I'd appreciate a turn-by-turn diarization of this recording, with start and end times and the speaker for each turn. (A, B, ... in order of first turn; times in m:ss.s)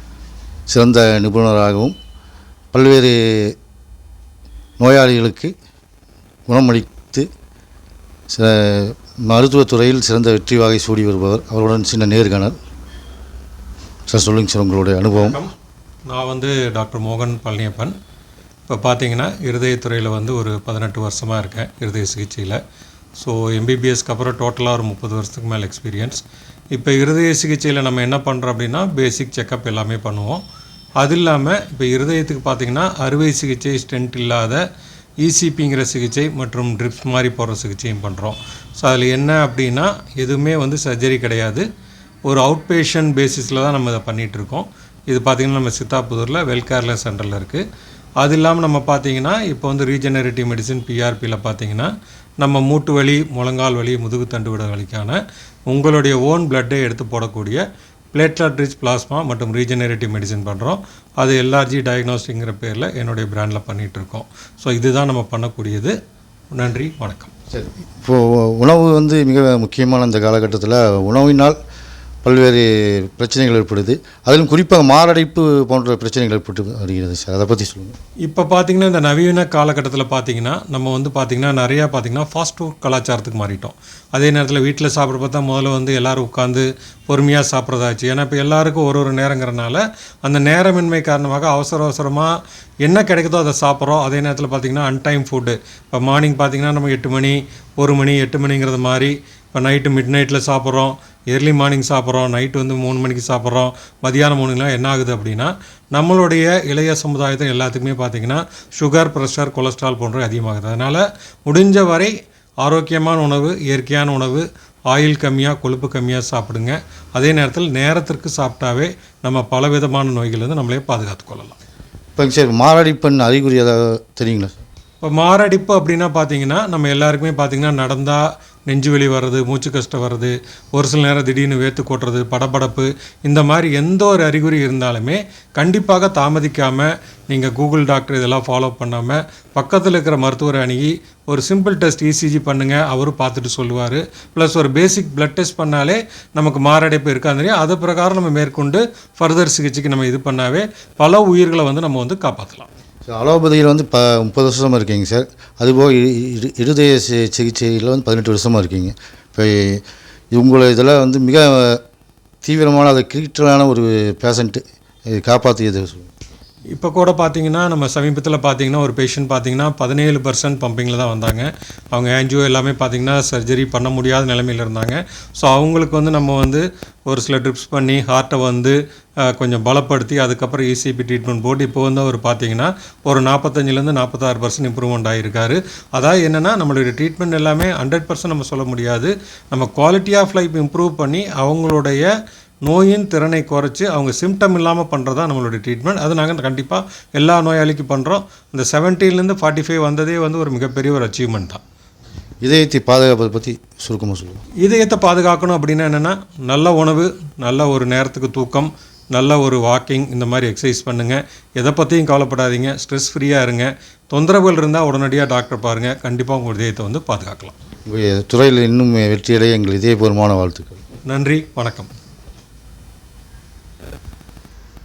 0:00.7-0:02.0 A
0:02.7-0:03.6 A
0:04.8-0:05.5 A
0:06.5-0:07.3 A
0:08.3-0:12.6 A
0:14.1-0:15.4 A
0:15.2-0:15.5 B
0:16.1-0:17.9 B
0:18.7-0:22.6 B
0:23.2-0:30.4 B
0:31.0-0:34.6 B
0:35.2-0:41.6 B
0:42.3-0:47.6 B
0:48.2-0:57.6 B
0:58.1-1:05.9 B
1:06.5-1:07.3 B
1:07.5-1:11.6 A
1:12.2-1:18.0 A
1:18.3-1:52.1 B
1:52.6-2:01.6 B
2:02.2-2:04.6 A
2:05.0-2:32.7 B
2:33.1-2:39.8 A
2:40.3-2:41.8 A
2:42.4-2:46.1 A
2:46.7-3:12.1 B
3:12.6-3:21.6 B
3:22.4-3:24.4 A
3:24.6-3:37.5 B
3:37.9-3:40.8 A
3:41.1-3:41.9 B